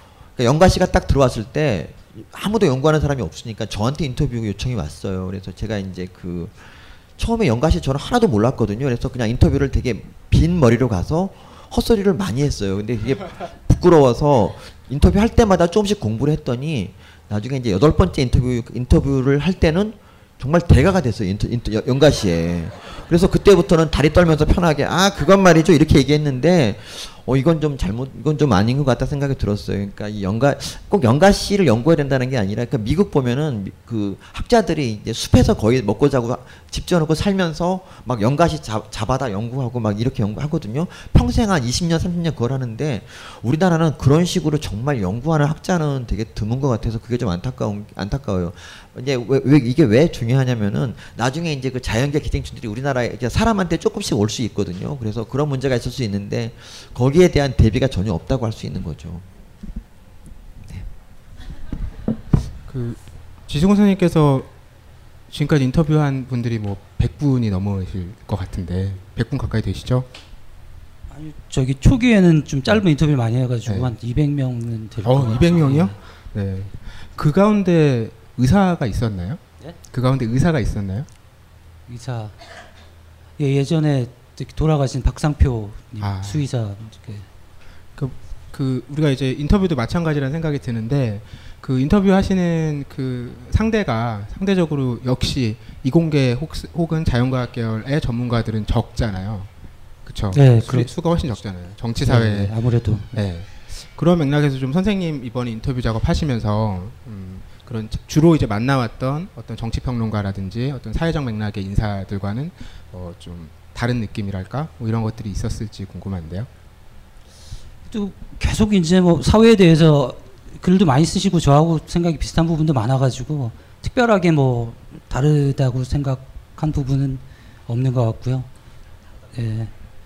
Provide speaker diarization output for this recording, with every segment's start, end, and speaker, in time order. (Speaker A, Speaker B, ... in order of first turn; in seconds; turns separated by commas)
Speaker A: 0.4-59.3, Speaker B: 62.7-64.5, Speaker B: 65.3-70.1, Speaker C: 71.1-75.9, Speaker B: 73.7-73.9, Speaker B: 75.0-81.1, Speaker C: 81.9-82.4, Speaker C: 83.4-87.3, Speaker B: 86.0-86.5, Speaker B: 88.0-99.5, Speaker B: 100.1-102.5, Speaker C: 100.3-100.9, Speaker C: 102.0-103.1, Speaker B: 103.1-116.5, Speaker C: 117.9-128.5, Speaker C: 129.3-129.7